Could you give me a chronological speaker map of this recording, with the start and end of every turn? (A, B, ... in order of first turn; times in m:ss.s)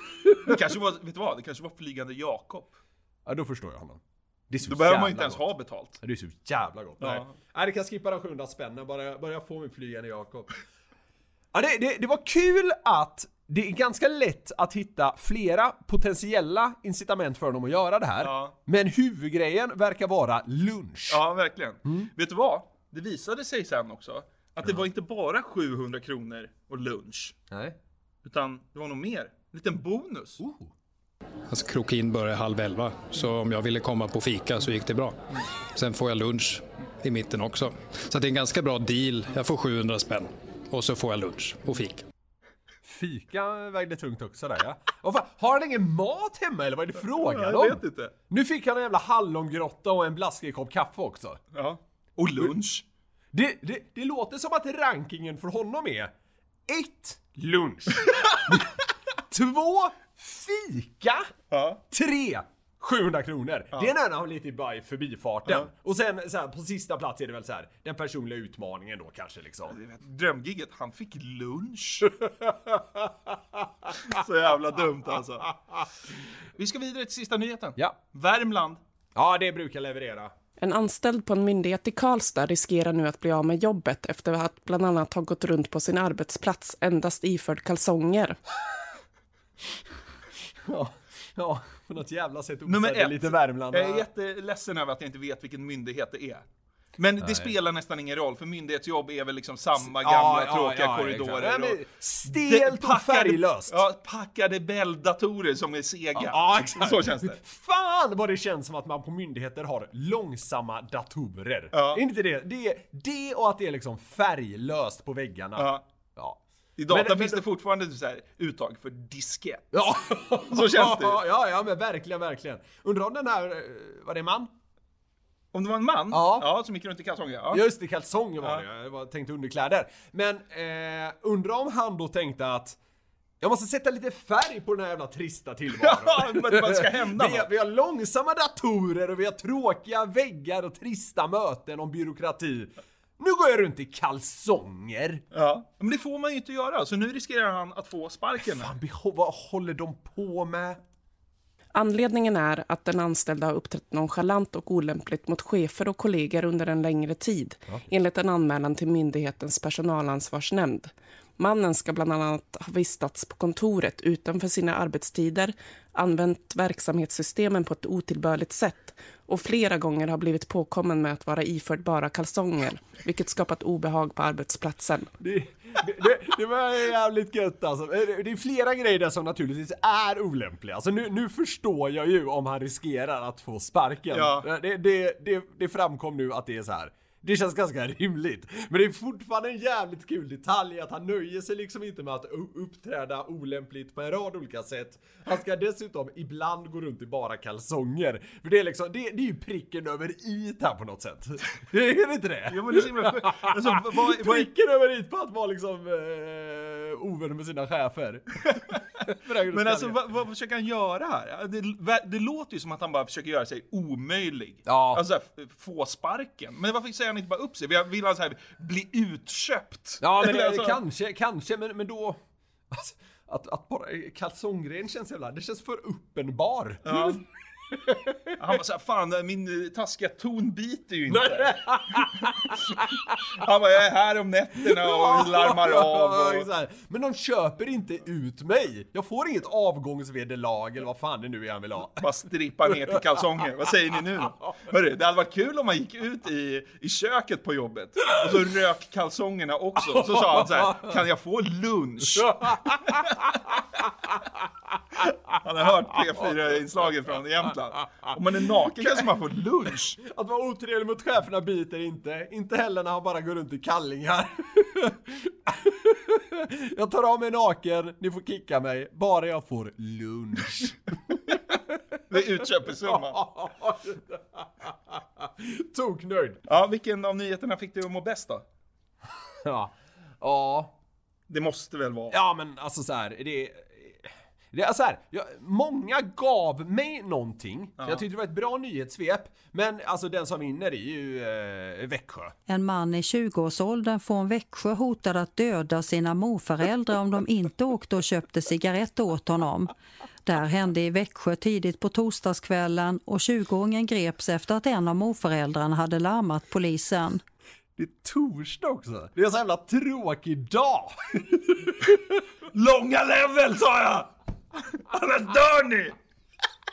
0:00.2-0:00.5 A
0:00.4-0:02.8 B
0:03.2-0:05.5 A
0:04.6-0:06.0 B
0:06.0-0:10.6 A
0:07.0-0:07.3 B
0:11.5-0:21.2 A
0:18.2-0:18.5 B
0:21.1-0:27.4 B
0:21.8-0:22.1 A
0:27.5-0:27.8 A
0:28.2-0:30.4 B
0:30.4-0:30.7 A
0:31.5-0:42.0 C
0:42.8-0:51.4 A
0:47.0-0:48.1 B
0:51.5-0:52.8 B
0:53.3-0:56.1 A
0:56.7-1:01.3 A
1:01.5-1:01.8 B
1:01.9-1:09.8 A
1:09.7-1:12.1 B
1:12.4-1:13.1 A
1:14.0-1:15.6 B
1:16.6-1:18.8 B
1:19.1-1:20.3 A
1:20.6-1:28.4 D
1:30.6-1:34.1 A
1:32.6-1:36.4 B
1:37.0-1:47.4 B
1:37.2-1:37.5 A
1:39.8-1:43.8 A
1:46.1-1:57.4 A
1:51.7-1:52.0 B
1:55.6-1:55.8 B
1:56.8-1:59.8 B
1:59.7-2:04.5 A
2:00.5-2:01.2 B
2:05.5-2:07.6 B
2:06.1-2:06.5 A
2:07.5-2:12.8 A
2:13.4-2:25.2 A
2:15.7-2:17.5 B
2:25.3-2:28.7 B
2:28.4-2:30.8 A
2:31.7-2:55.1 D
2:55.2-3:30.0 A
3:04.1-3:04.5 B
3:22.5-3:24.5 B
3:28.4-3:28.7 B
3:29.4-3:40.8 B
3:34.6-3:35.0 A
3:40.0-3:42.2 A
3:42.7-3:48.4 A
3:46.8-3:47.2 B
3:48.4-3:56.5 B
3:51.1-3:52.8 A
3:54.6-4:02.1 A
4:01.9-4:13.4 B
4:09.8-4:11.0 A
4:12.2-4:13.6 A
4:15.0-4:20.0 B
4:20.0-4:32.2 A
4:32.1-4:33.2 B
4:32.8-4:36.4 A
4:36.5-4:38.4 B
4:39.4-4:40.7 A
4:41.3-4:42.2 B
4:42.1-4:52.3 A
4:47.8-4:48.0 B
4:52.5-4:59.7 E
5:00.2-5:07.2 E
5:07.8-5:12.0 A
5:12.5-5:16.0 B